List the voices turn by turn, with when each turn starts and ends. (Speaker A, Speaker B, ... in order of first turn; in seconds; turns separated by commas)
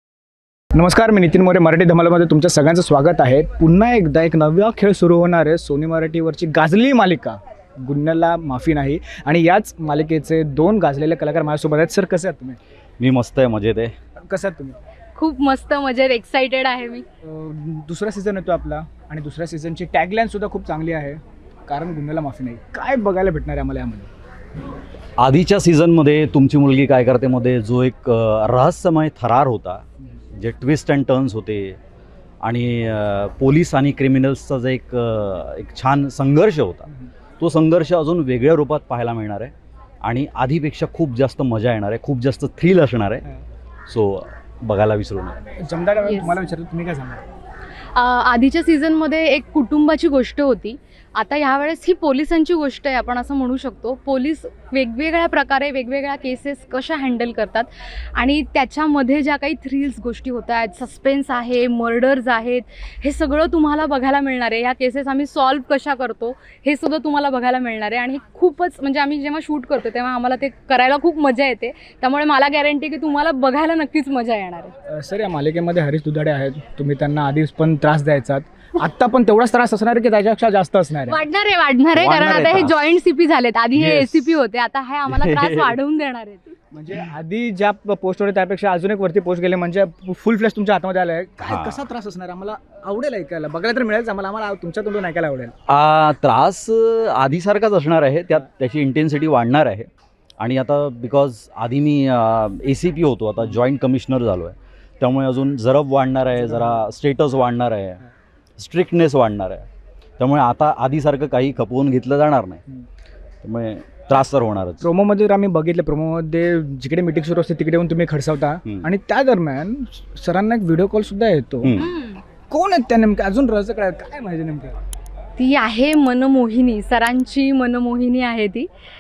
Speaker A: 0.7-12.6, Speaker B: 13.0-13.9, Speaker A: 14.2-14.8, Speaker C: 15.2-17.0, Speaker A: 17.2-24.1, Speaker B: 25.2-31.8, Speaker B: 32.4-43.2, Speaker B: 43.9-45.4, Speaker A: 45.6-47.2, Speaker C: 46.0-46.5, Speaker C: 47.9-74.7, Speaker A: 74.9-81.2, Speaker C: 81.1-86.5, Speaker B: 81.9-82.8, Speaker B: 83.7-84.3, Speaker B: 85.0-85.8, Speaker A: 86.7-95.5, Speaker B: 91.4-91.8, Speaker B: 95.7-108.0, Speaker A: 106.4-106.8, Speaker B: 108.6-109.7, Speaker B: 110.2-112.6, Speaker B: 113.4-114.8, Speaker A: 114.8-121.7, Speaker B: 121.6-121.9, Speaker C: 121.8-122.2, Speaker A: 122.5-124.8, Speaker C: 125.4-128.7